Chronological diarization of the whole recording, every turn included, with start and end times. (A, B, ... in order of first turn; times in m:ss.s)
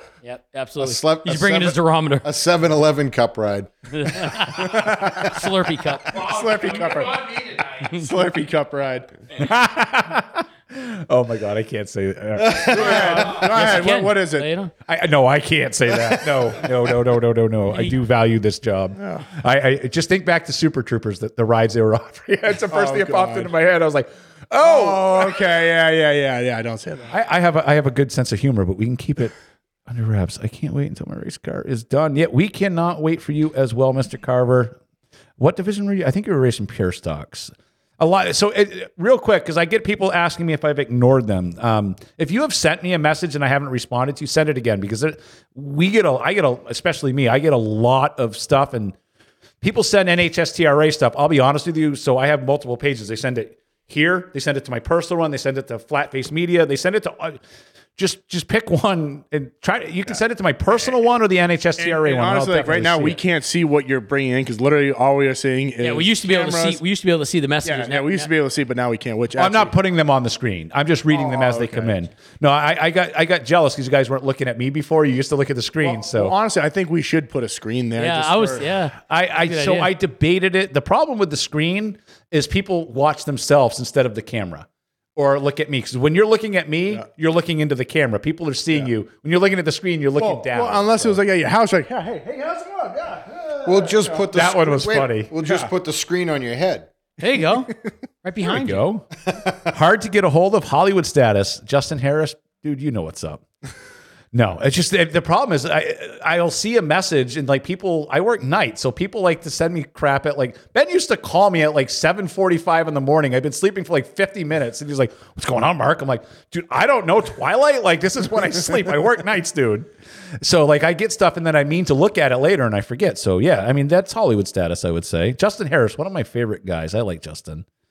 0:00.2-0:02.3 A
0:00.8-0:04.3 B
0:03.9-0:06.3 A
0:04.5-0:05.3 C
0:06.1-0:07.7 D
0:06.1-0:07.3 C
0:07.8-0:09.1 C
0:09.3-0:13.8 D
0:12.4-0:12.9 B
0:12.7-0:14.5 C
0:12.8-0:14.7 A
0:14.8-0:25.5 D
0:17.7-0:17.9 A
0:19.0-0:19.3 C
0:22.7-0:23.5 C
0:24.6-0:27.1 C
0:27.1-0:29.3 D
0:29.9-0:34.8 D
0:35.4-0:48.9 D
0:49.6-0:57.4 D
0:58.0-1:03.2 D
1:01.8-1:06.8 C
1:05.8-1:08.3 A
1:07.6-1:09.7 C
1:09.4-1:16.3 D
1:11.1-1:12.0 C
1:15.8-1:18.6 C
1:18.0-1:19.9 A
1:19.1-1:31.2 D
1:30.2-1:34.2 C
1:33.6-1:36.9 B
1:34.3-1:35.3 D
1:35.4-1:35.7 C
1:37.2-1:37.7 A
1:37.7-1:37.9 C
1:38.2-1:38.8 A
1:38.4-1:39.0 D
1:39.2-1:39.7 B
1:39.7-1:43.4 D
1:44.3-1:59.9 D
2:00.4-2:07.6 D